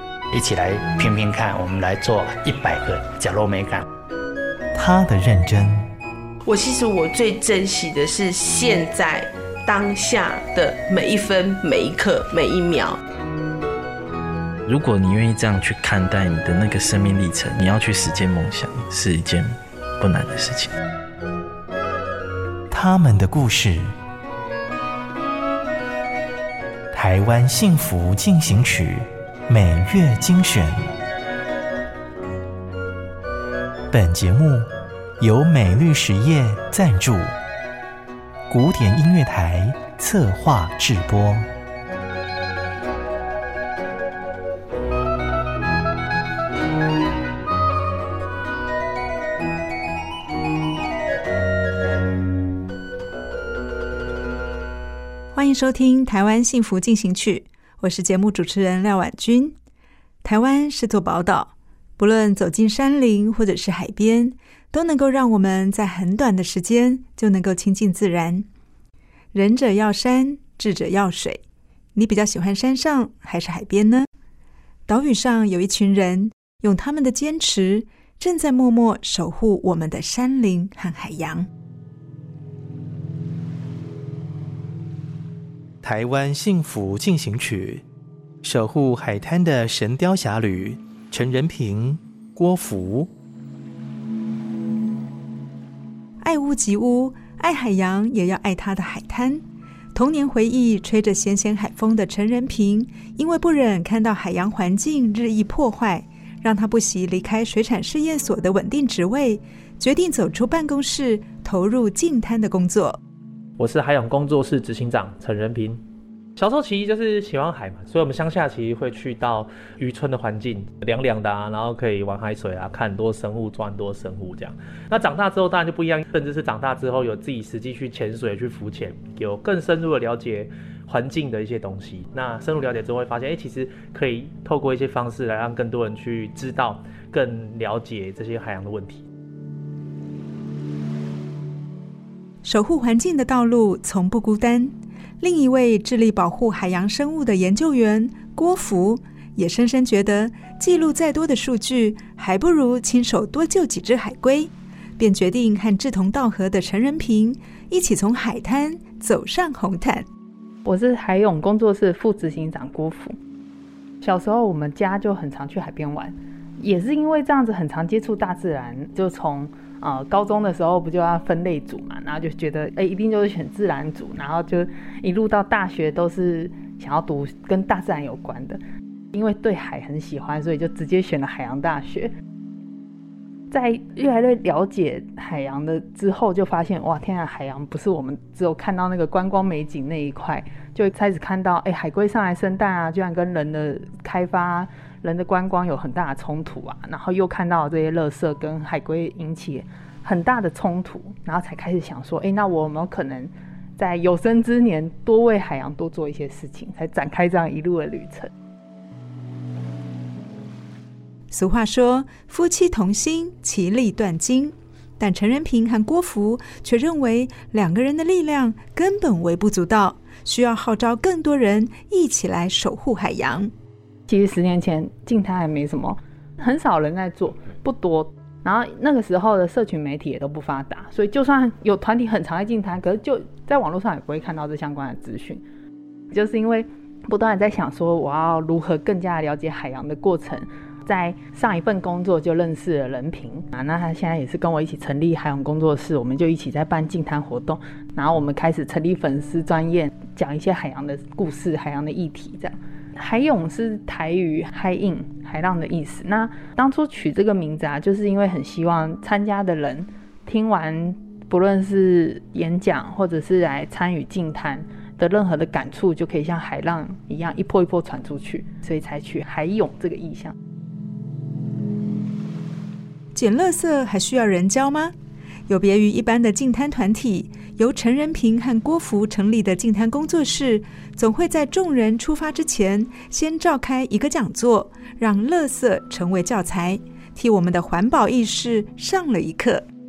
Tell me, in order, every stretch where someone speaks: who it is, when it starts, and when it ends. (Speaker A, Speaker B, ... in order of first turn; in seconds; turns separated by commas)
Speaker A: 0.3-3.8, Speaker B: 4.7-5.9, Speaker C: 6.5-13.0, Speaker D: 14.7-20.7, Speaker B: 22.7-23.9, Speaker B: 26.9-30.7, Speaker B: 33.9-34.7, Speaker B: 35.2-37.3, Speaker B: 38.5-41.5, Speaker E: 55.3-59.5, Speaker E: 60.2-68.5, Speaker E: 69.3-71.4, Speaker E: 72.0-74.1, Speaker E: 74.9-81.5, Speaker B: 85.8-87.8, Speaker B: 88.4-93.1, Speaker E: 96.2-99.4, Speaker E: 100.0-113.0, Speaker F: 113.6-115.8, Speaker F: 116.4-139.1, Speaker E: 142.4-160.1, Speaker G: 160.7-163.2, Speaker G: 164.0-178.6, Speaker G: 179.1-182.1, Speaker G: 183.5-208.3, Speaker E: 211.3-223.5, Speaker G: 224.1-235.4, Speaker G: 236.1-270.4, Speaker E: 273.1-274.9, Speaker E: 275.5-289.6